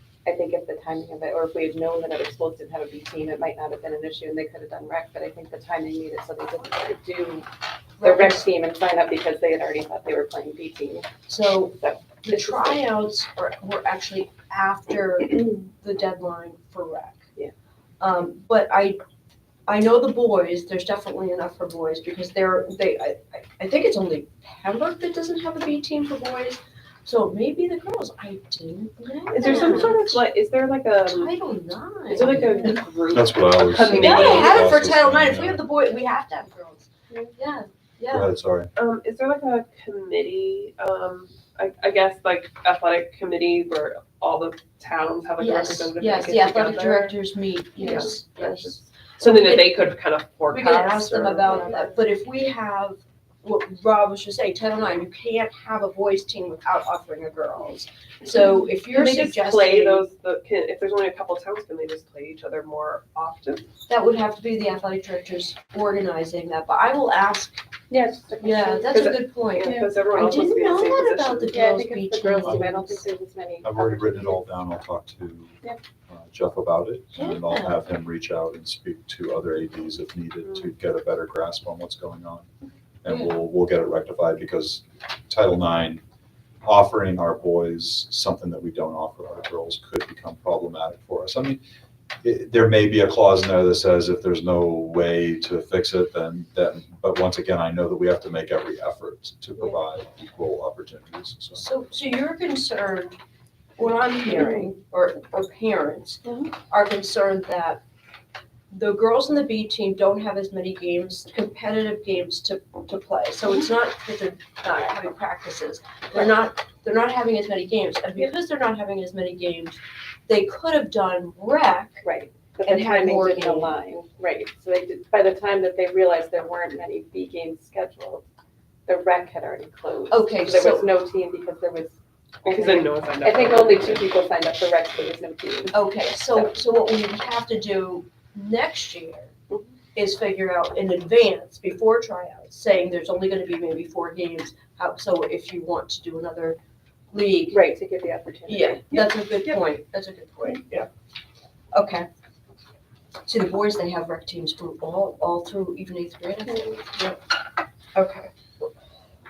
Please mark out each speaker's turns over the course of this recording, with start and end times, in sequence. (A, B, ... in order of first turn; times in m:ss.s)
0:00.2-0:07.5 A
0:08.0-0:08.5 B
0:08.0-0:11.1 A
0:11.3-0:17.3 B
0:11.8-0:12.8 A
0:18.0-0:19.0 B
0:19.7-0:30.2 B
0:29.3-0:31.4 C
0:29.4-0:29.8 A
0:31.0-0:32.8 B
0:32.1-0:34.8 C
0:33.1-0:35.6 D
0:33.9-0:38.3 B
0:38.1-0:38.7 D
0:38.7-0:47.2 C
0:45.4-0:49.7 B
0:47.8-0:51.9 C
0:50.5-1:00.0 B
0:58.8-1:03.6 C
1:03.9-1:07.6 B
1:07.9-1:09.1 A
1:08.4-1:13.0 B
1:08.9-1:11.6 C
1:11.5-1:14.4 A
1:12.4-1:13.0 D
1:13.6-1:15.6 D
1:16.1-1:22.5 D
1:17.1-1:17.8 B
1:23.0-1:26.0 D
1:26.6-1:31.6 D
1:32.2-1:41.6 D
1:41.5-1:43.2 B
1:43.8-1:47.8 B
1:48.7-2:02.0 B
2:02.0-2:08.2 A
2:02.6-2:03.7 B
2:08.9-2:16.5 A
2:10.1-2:10.9 B
2:12.4-2:14.1 C
2:15.7-2:19.3 B
2:19.9-2:26.6 B
2:27.1-2:27.6 B
2:27.5-2:28.8 A
2:28.5-2:30.9 B
2:28.9-2:29.6 C
2:31.7-2:32.1 B
2:33.2-2:37.2 B
2:37.9-2:38.7 B